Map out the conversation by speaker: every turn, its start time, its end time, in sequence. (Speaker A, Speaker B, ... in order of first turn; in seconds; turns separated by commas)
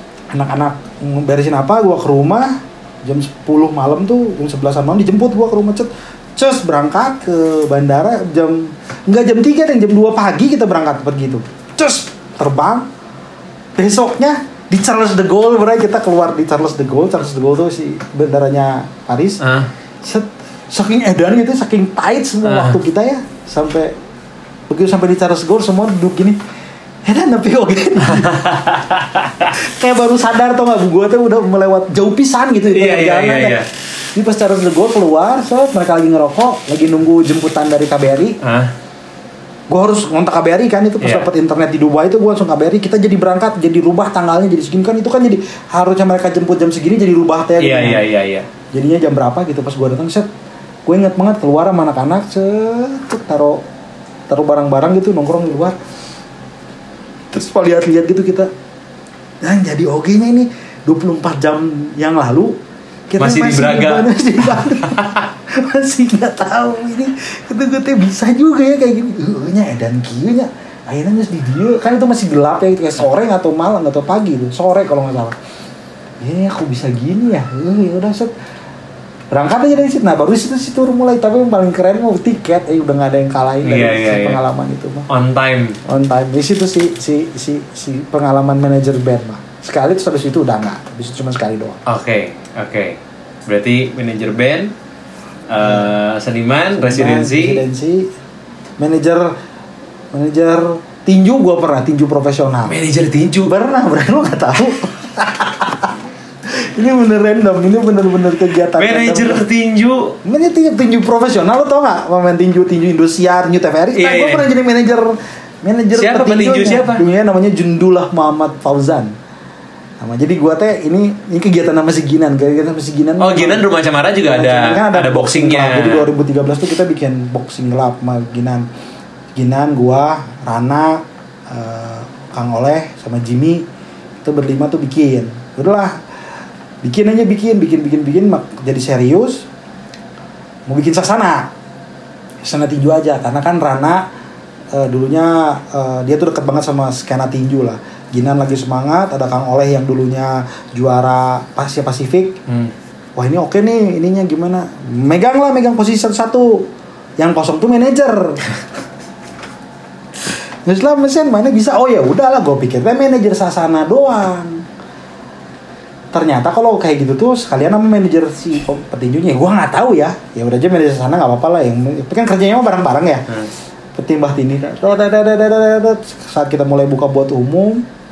Speaker A: 0.3-12.8, Speaker A: 13.8-19.4, Speaker B: 19.4-19.7, Speaker A: 20.0-23.9, Speaker B: 22.4-22.8, Speaker A: 24.7-26.4, Speaker A: 27.0-28.7, Speaker B: 28.1-29.5, Speaker A: 29.5-33.6, Speaker B: 32.7-33.7, Speaker A: 34.1-38.4, Speaker B: 38.4-38.7, Speaker A: 39.7-48.0, Speaker B: 41.0-41.3, Speaker B: 47.6-48.5, Speaker A: 48.7-50.3, Speaker A: 50.9-53.6, Speaker A: 54.3-55.8, Speaker A: 57.3-58.5, Speaker A: 59.4-62.6, Speaker A: 63.1-75.3, Speaker B: 63.2-65.2, Speaker A: 76.2-78.3, Speaker A: 79.3-85.1, Speaker B: 83.6-84.4, Speaker B: 85.1-85.8, Speaker A: 85.8-91.8, Speaker B: 91.8-94.7, Speaker B: 95.5-97.6, Speaker A: 95.6-95.9, Speaker A: 96.7-98.1, Speaker A: 98.8-99.3, Speaker A: 100.1-102.8, Speaker B: 102.7-103.5, Speaker A: 103.4-105.9, Speaker A: 106.5-109.4, Speaker B: 108.8-110.2, Speaker A: 110.2-119.1, Speaker B: 113.9-114.5, Speaker B: 115.9-117.0, Speaker A: 120.0-123.6, Speaker B: 123.2-126.1, Speaker A: 124.3-128.7, Speaker A: 129.3-133.6, Speaker A: 134.2-135.9, Speaker A: 136.8-139.5, Speaker A: 140.7-141.5, Speaker A: 142.4-144.1, Speaker A: 144.7-152.4, Speaker B: 152.5-152.7, Speaker A: 153.2-158.4, Speaker A: 160.6-164.6, Speaker A: 166.1-173.2, Speaker A: 173.9-177.8